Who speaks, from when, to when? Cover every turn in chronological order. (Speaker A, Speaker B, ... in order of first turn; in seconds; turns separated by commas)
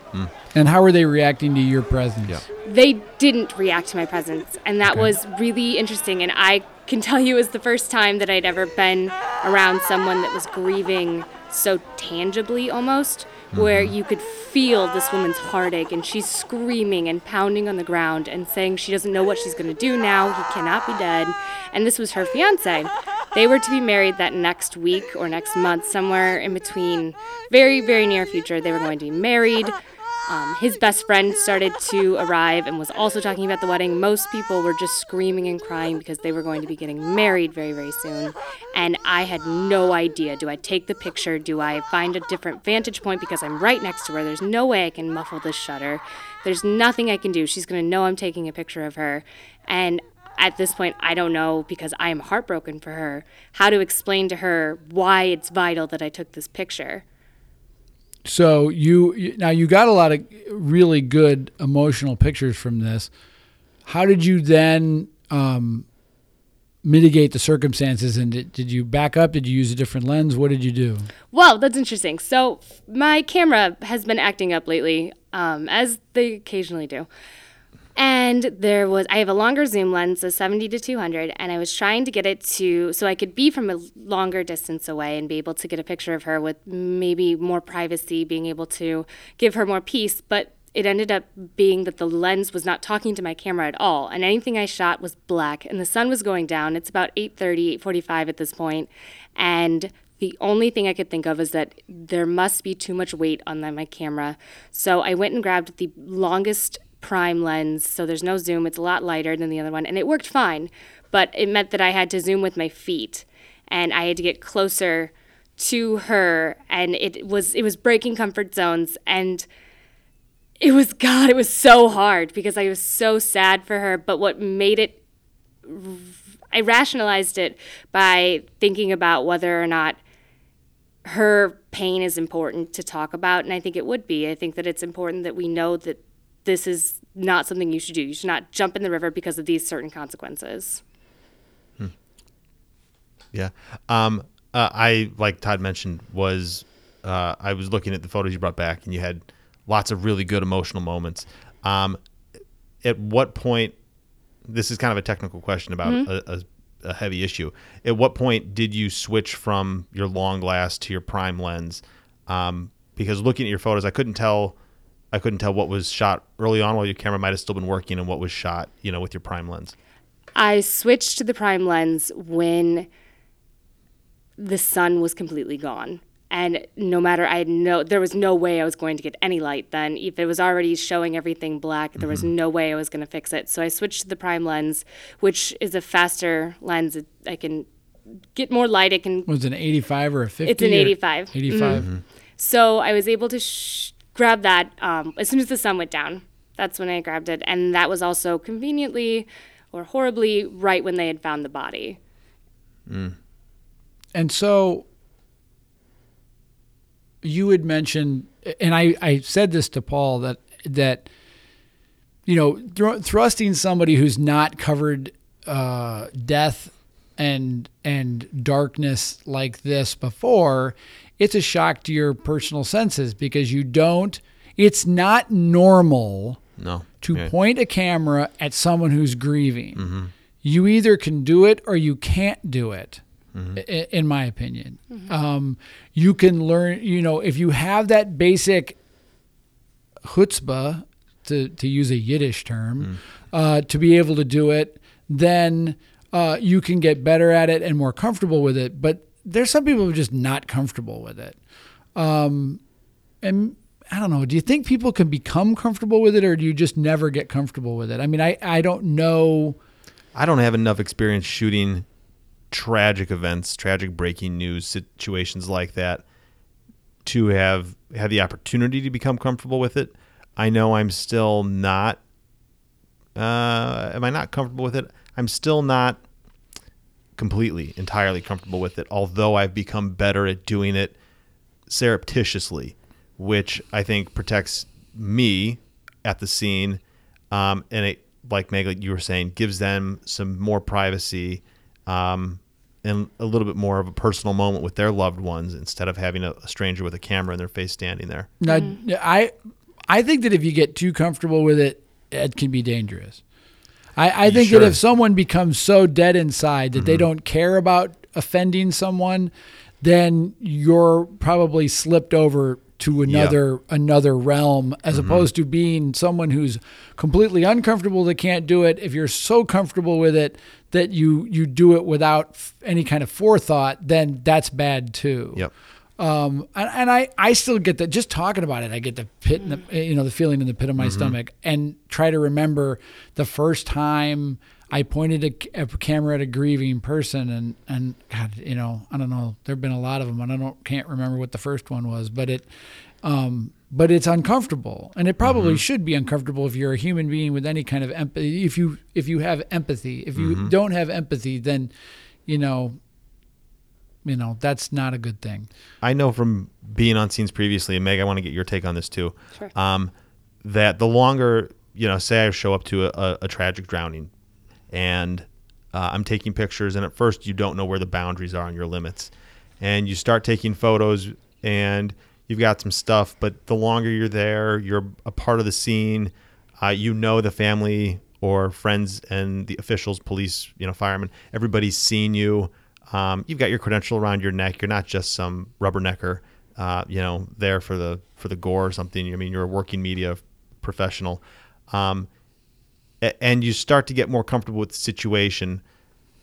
Speaker A: 0.5-2.4, Speaker B: 2.6-29.7, Speaker C: 13.5-13.9, Speaker B: 30.3-57.0, Speaker A: 58.2-63.1, Speaker A: 63.9-65.9, Speaker A: 66.8-71.1, Speaker B: 71.3-77.1, Speaker B: 78.0-119.5, Speaker B: 120.6-125.0, Speaker B: 125.7-130.0, Speaker B: 131.1-140.8, Speaker C: 143.3-152.0, Speaker C: 152.8-153.8, Speaker C: 154.5-164.6, Speaker C: 165.1-169.8, Speaker B: 170.4-172.9, Speaker B: 174.4-187.7, Speaker C: 182.0-182.3, Speaker B: 188.3-189.3, Speaker A: 189.3-191.9, Speaker B: 190.4-191.9, Speaker C: 191.7-192.0, Speaker B: 192.4-202.0, Speaker C: 202.9-203.2, Speaker A: 204.1-204.8, Speaker A: 207.2-211.1, Speaker A: 212.3-226.4, Speaker C: 226.6-227.3, Speaker A: 227.0-233.0, Speaker C: 229.8-230.1, Speaker C: 233.3-233.6, Speaker A: 233.5-238.8, Speaker A: 240.1-251.4, Speaker A: 252.0-252.6, Speaker A: 253.2-259.6, Speaker C: 260.1-261.9, Speaker C: 262.5-266.0, Speaker C: 267.0-272.0, Speaker C: 273.2-276.0, Speaker C: 277.2-281.0, Speaker C: 281.7-298.3, Speaker A: 298.4-299.3, Speaker B: 298.5-298.8, Speaker A: 299.9-303.2, Speaker A: 304.0-309.3, Speaker C: 304.2-304.8, Speaker C: 306.8-307.1, Speaker A: 309.8-325.5, Speaker C: 313.1-313.4, Speaker C: 314.9-315.3, Speaker A: 326.0-342.5, Speaker C: 330.8-331.2, Speaker A: 343.0-351.7, Speaker C: 345.2-345.6, Speaker C: 350.2-350.5, Speaker A: 352.3-352.8, Speaker A: 354.0-355.5, Speaker C: 355.8-359.9, Speaker C: 360.4-364.1, Speaker C: 364.7-392.1, Speaker C: 393.0-395.6